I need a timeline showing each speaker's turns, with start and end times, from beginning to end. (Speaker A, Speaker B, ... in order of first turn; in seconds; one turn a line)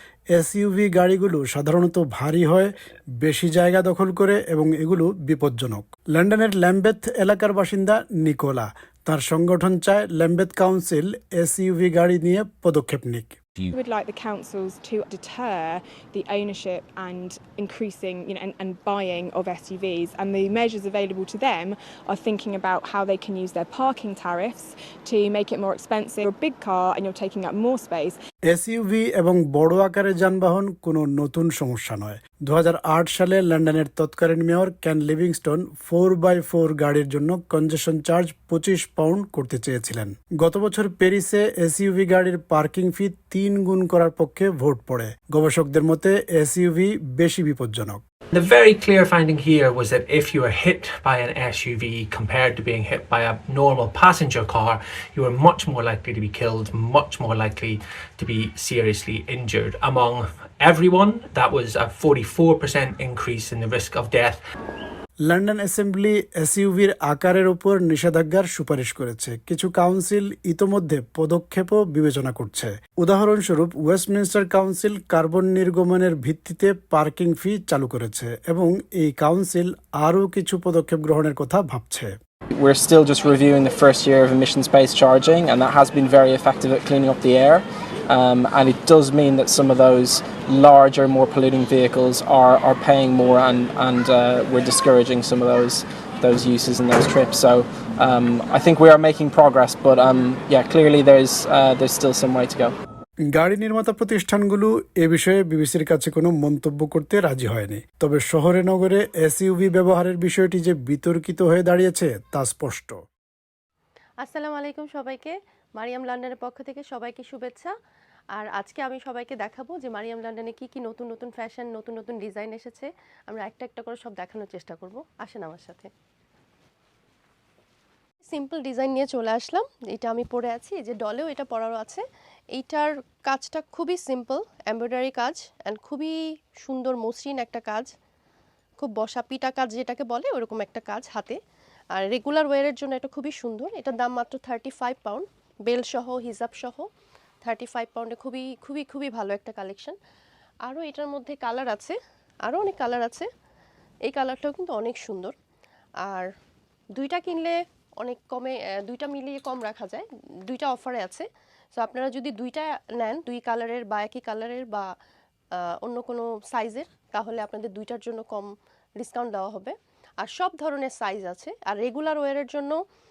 Speaker A: 0.3-13.4
Speaker B: 13.7-28.2
Speaker A: 28.5-48.0
Speaker C: 48.3-64.4
Speaker A: 65.3-82.2
Speaker D: 82.5-102.8
Speaker A: 103.3-113.0
Speaker E: 114.2-117.7
Speaker E: 118.4-125.9
Speaker E: 128.3-132.0
Speaker E: 132.6-137.9
Speaker E: 138.8-141.4
Speaker E: 142.0-146.9
Speaker E: 147.4-150.0
Speaker E: 150.7-153.3
Speaker E: 154.1-155.3
Speaker E: 156.1-156.3
Speaker E: 157.0-161.3
Speaker E: 161.8-164.9
Speaker E: 165.6-168.5
Speaker E: 169.0-172.8